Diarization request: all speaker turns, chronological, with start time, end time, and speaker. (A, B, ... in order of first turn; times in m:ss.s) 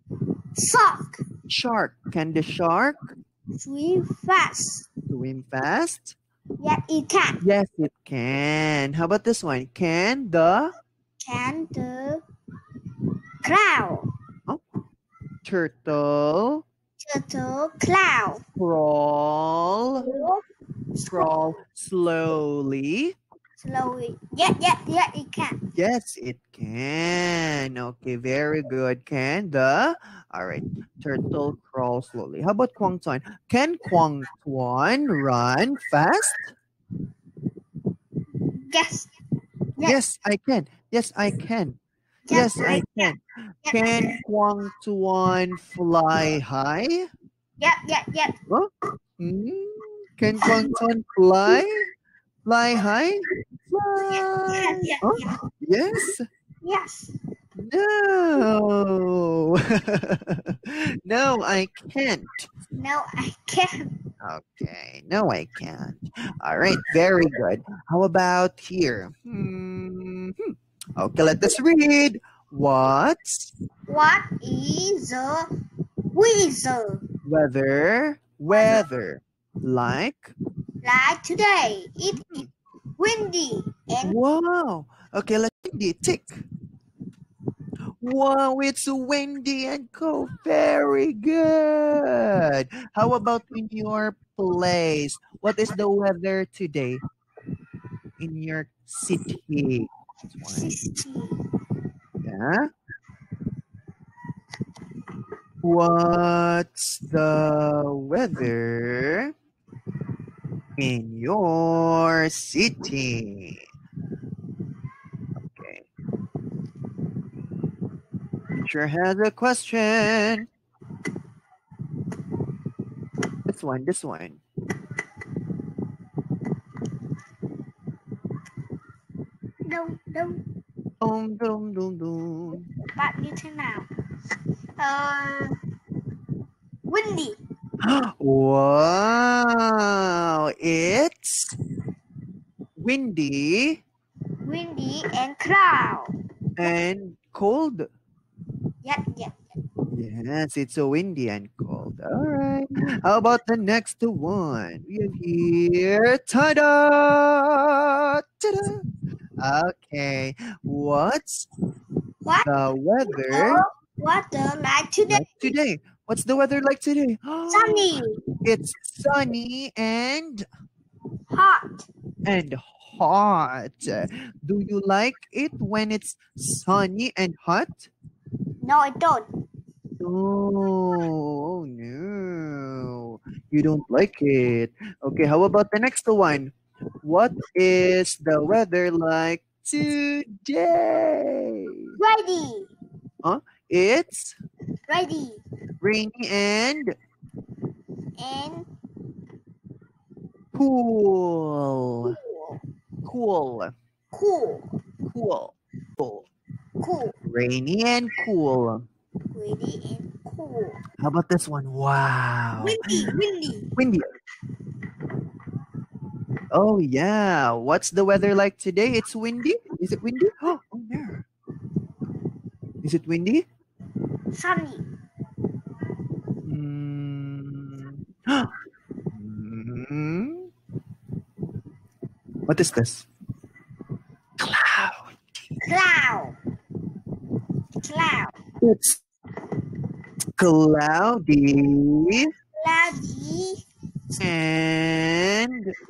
0:00.6-0:01.2 A
0:01.5-0:03.1 B
0:03.5-0:04.9 A
0:05.1-0:06.2 B
0:06.6-0:07.4 A
0:07.4-0:10.7 B
0:11.2-0:12.2 A
0:13.4-0:14.1 A
0:15.4-0:16.6 B
0:17.0-0:18.4 A
0:18.6-0:20.1 B
0:20.0-0:20.4 A
0:21.0-0:23.2 B
0:23.6-0:25.6 A
0:25.7-0:36.5 B
0:38.5-0:39.1 A
0:39.8-0:41.8 B
0:42.3-0:43.1 A
0:42.3-0:47.1 B
0:43.6-0:44.2 A
0:47.6-0:48.4 A
0:48.5-0:51.9 B
0:50.4-0:50.7 A
0:52.4-0:56.2 B
0:54.1-0:55.3 A
0:56.6-0:57.1 A
0:57.6-1:02.5 B
1:02.7-1:03.9 A
1:04.2-1:13.5 B
1:13.9-1:15.5 A
1:16.1-1:17.0 A
1:17.2-1:20.3 B
1:18.6-1:18.8 A
1:20.8-1:22.4 A
1:22.1-1:22.5 B
1:23.0-1:24.2 A
1:24.0-1:26.4 B
1:28.0-1:37.0 B
1:38.2-1:40.8 B
1:40.5-1:41.4 A
1:42.2-1:42.7 B
1:45.6-1:49.3 B
1:50.8-1:53.6 B
1:55.4-1:55.8 B
1:58.6-2:00.5 B
2:03.5-2:04.4 B
2:09.6-2:10.4 A
2:11.0-2:12.7 B
2:12.9-2:13.9 A
2:14.8-2:15.5 A
2:16.9-2:17.4 A
2:17.8-2:21.6 B
2:22.8-2:23.8 B
2:24.4-2:26.2 A
2:26.6-2:27.9 B
2:28.8-2:29.4 A
2:29.9-2:38.8 B
2:39.4-2:41.5 B
2:42.2-2:42.5 A
2:42.4-2:43.6 B
2:43.1-2:45.5 A
2:45.1-2:50.4 B
2:47.5-2:48.2 A
2:51.3-2:51.9 A
2:52.2-2:57.9 B
2:58.6-2:59.3 A
3:00.0-3:12.0 B
3:12.0-3:12.7 A
3:13.2-3:14.4 B
3:14.9-3:15.4 A
3:15.8-3:17.0 B
3:18.2-3:18.7 A
3:20.5-3:22.2 B
3:22.0-3:22.6 A
3:23.0-3:23.7 B
3:24.1-3:24.7 A
3:25.1-3:26.3 B
3:26.8-3:27.2 A
3:27.2-3:28.8 B
3:29.3-3:30.8 A
3:31.0-3:32.9 B
3:32.6-3:33.7 A
3:33.8-3:34.1 B
3:36.5-3:41.2 B
3:42.8-3:43.4 B
3:44.3-3:44.8 A
3:46.4-3:48.5 B
3:49.1-3:50.5 B
3:52.5-3:53.1 B
3:54.4-3:55.2 B
3:55.6-3:56.4 A
3:57.8-3:58.3 A
3:58.6-3:59.0 B
4:00.4-4:02.3 B
4:02.6-4:03.6 A
4:04.1-4:05.7 B